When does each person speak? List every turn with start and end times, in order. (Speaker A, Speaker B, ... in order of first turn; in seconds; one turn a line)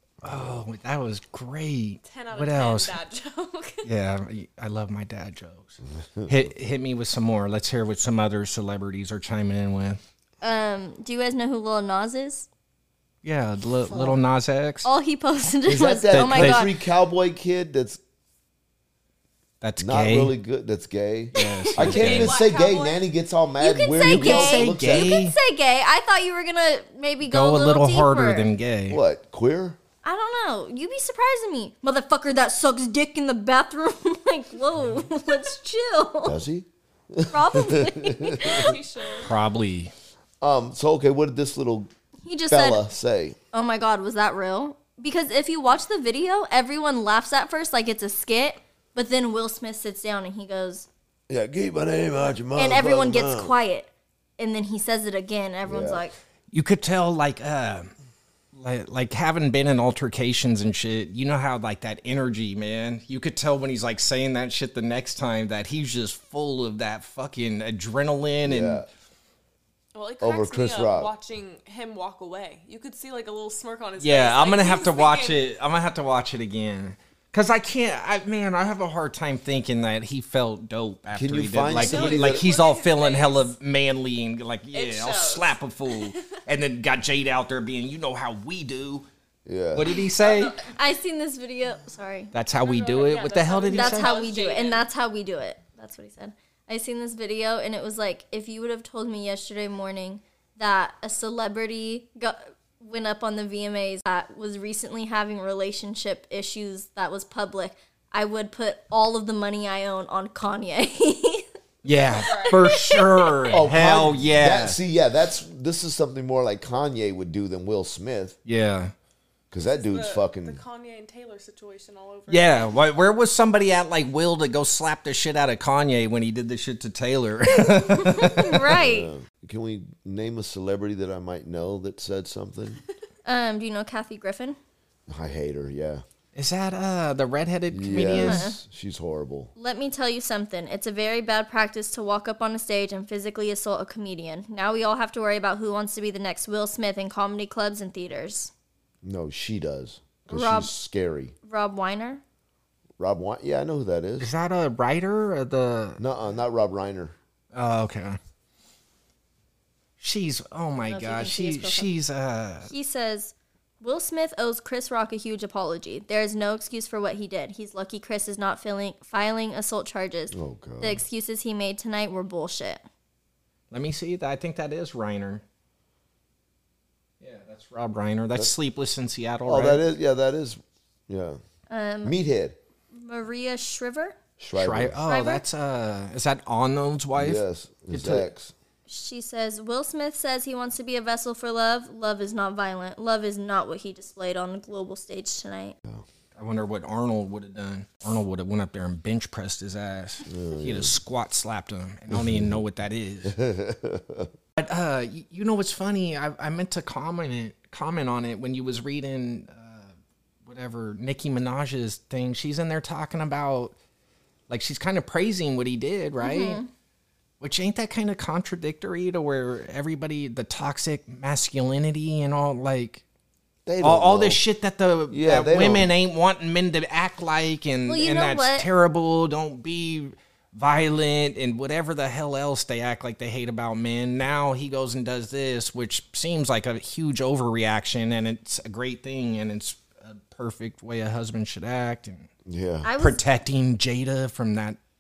Speaker A: 0.2-0.6
Speaker B: 0.2-3.0
Speaker C: 2.0-3.9
Speaker B: 3.8-10.0
Speaker A: 5.9-6.5
Speaker D: 10.4-12.5
Speaker B: 13.2-14.9
Speaker A: 13.8-14.2
Speaker D: 14.8-16.7
Speaker A: 15.7-18.0
Speaker B: 16.1-16.7
Speaker B: 19.6-20.3
Speaker A: 19.8-25.2
Speaker B: 21.3-22.4
Speaker D: 21.4-21.9
Speaker C: 21.8-23.1
Speaker D: 23.6-28.5
Speaker B: 24.0-25.4
Speaker B: 27.2-29.0
Speaker A: 28.9-29.8
Speaker D: 30.0-36.4
Speaker A: 36.2-38.8
Speaker D: 37.3-38.8
Speaker C: 38.4-39.3
Speaker B: 39.2-39.9
Speaker A: 40.4-41.9
Speaker D: 42.2-42.8
Speaker A: 42.5-43.4
Speaker D: 43.5-50.9
Speaker A: 51.3-53.5
Speaker D: 52.6-56.1
Speaker A: 55.6-56.1
Speaker B: 56.5-57.9
Speaker B: 58.5-68.8
Speaker A: 68.4-68.9
Speaker C: 69.9-75.5
Speaker A: 70.2-71.1
Speaker B: 74.0-89.1
Speaker A: 81.1-82.5
Speaker C: 81.7-83.5
Speaker C: 84.7-86.2
Speaker A: 89.5-90.0
Speaker B: 89.7-90.6
Speaker C: 90.2-90.6
Speaker D: 90.6-92.3
Speaker B: 92.3-94.2
Speaker C: 92.6-94.8
Speaker D: 93.7-111.5
Speaker B: 111.8-114.8
Speaker C: 112.1-112.8
Speaker D: 112.5-113.3
Speaker A: 113.5-118.4
Speaker B: 118.5-118.9
Speaker A: 119.5-120.6
Speaker C: 119.8-122.8
Speaker B: 122.3-128.7
Speaker D: 127.7-129.1
Speaker A: 128.7-132.8
Speaker D: 133.2-134.6
Speaker A: 135.1-136.0
Speaker B: 136.3-138.5
Speaker A: 137.7-139.5
Speaker D: 138.2-138.6
Speaker D: 139.6-148.5
Speaker A: 149.0-151.3
Speaker D: 150.3-150.7
Speaker D: 151.5-152.2
Speaker A: 153.0-154.3
Speaker B: 154.2-156.0
Speaker A: 156.0-157.2
Speaker B: 157.5-158.2
Speaker B: 160.0-162.7
Speaker D: 160.9-161.9
Speaker D: 162.7-172.9
Speaker A: 170.3-171.0
Speaker B: 173.7-175.4
Speaker B: 177.2-179.8
Speaker A: 179.5-181.4
Speaker D: 181.7-182.2
Speaker A: 182.0-182.6
Speaker D: 182.9-184.2
Speaker A: 184.4-185.0
Speaker B: 184.6-188.3
Speaker D: 185.1-185.4
Speaker A: 187.2-188.5
Speaker D: 188.9-195.8
Speaker B: 196.4-203.4
Speaker A: 200.3-200.9
Speaker A: 202.1-202.6
Speaker A: 203.2-204.3
Speaker B: 204.6-209.9
Speaker B: 210.4-213.8
Speaker B: 214.5-216.6
Speaker D: 216.2-216.7
Speaker B: 217.4-223.0
Speaker A: 223.7-224.4
Speaker B: 223.8-242.3
Speaker A: 225.1-225.9
Speaker D: 227.9-228.7
Speaker A: 242.5-242.9
Speaker D: 242.8-243.2
Speaker B: 243.0-244.8